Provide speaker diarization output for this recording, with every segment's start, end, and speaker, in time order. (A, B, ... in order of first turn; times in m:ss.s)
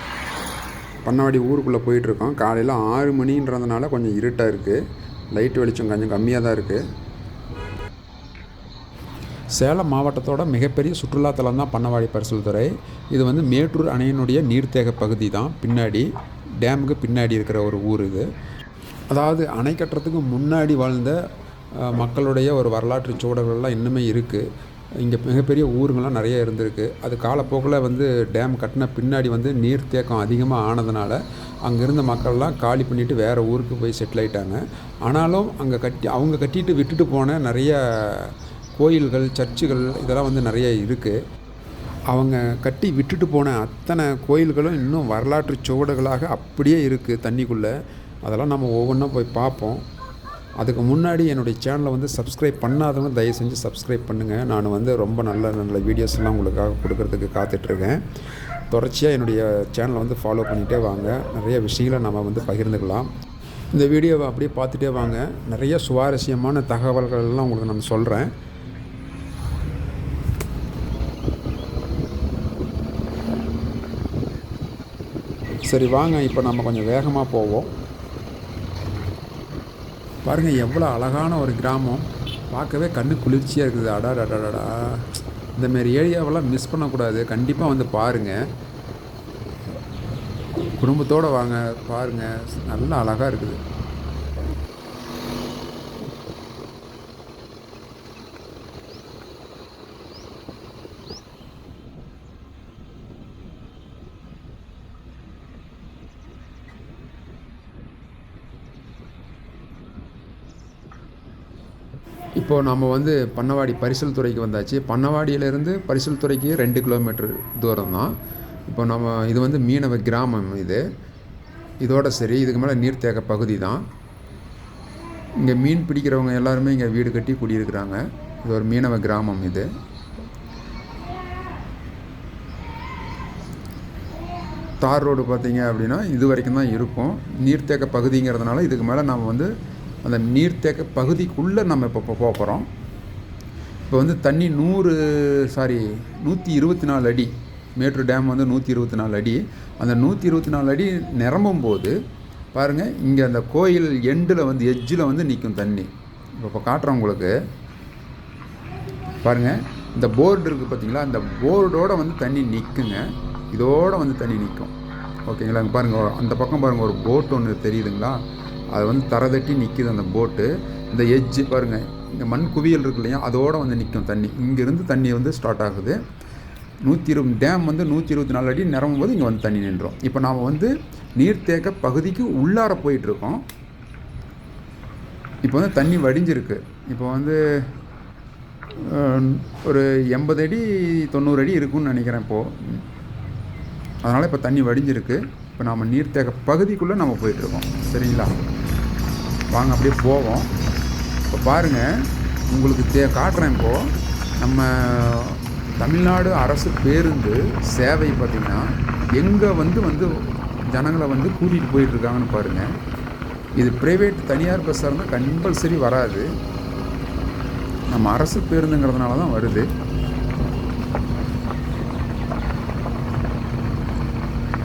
0:01.0-0:04.8 A
0:05.3-0:06.8 A
0:09.5-0:16.1 A
0:16.6-0:18.3 A
0:19.1-0:21.2 A
0:21.7-0:24.5 A
0:25.0-0:41.2 A
0:42.1-0:47.7 A
0:48.2-0:49.8 A
0:50.6-0:58.0 A
0:58.7-1:03.1 A
1:03.7-1:08.3 A
1:15.6-1:17.7 A
1:20.2-1:28.4 A
1:30.8-1:33.6 A
1:52.4-1:58.1 A
1:58.7-2:00.8 A
2:01.8-2:03.8 A
2:05.4-2:09.7 A
2:14.8-2:19.5 A
2:20.0-2:22.7 A
2:23.9-2:32.0 A
2:32.5-2:37.3 A
2:39.2-2:44.7 A
2:45.2-2:48.2 A
2:48.7-2:56.0 A
2:56.8-3:03.4 A
3:05.4-3:07.4 A
3:08.8-3:12.8 A
3:14.0-3:18.4 A
3:19.5-3:20.5 A
3:21.3-3:32.7 A
3:33.6-3:36.3 A
3:37.9-3:39.7 A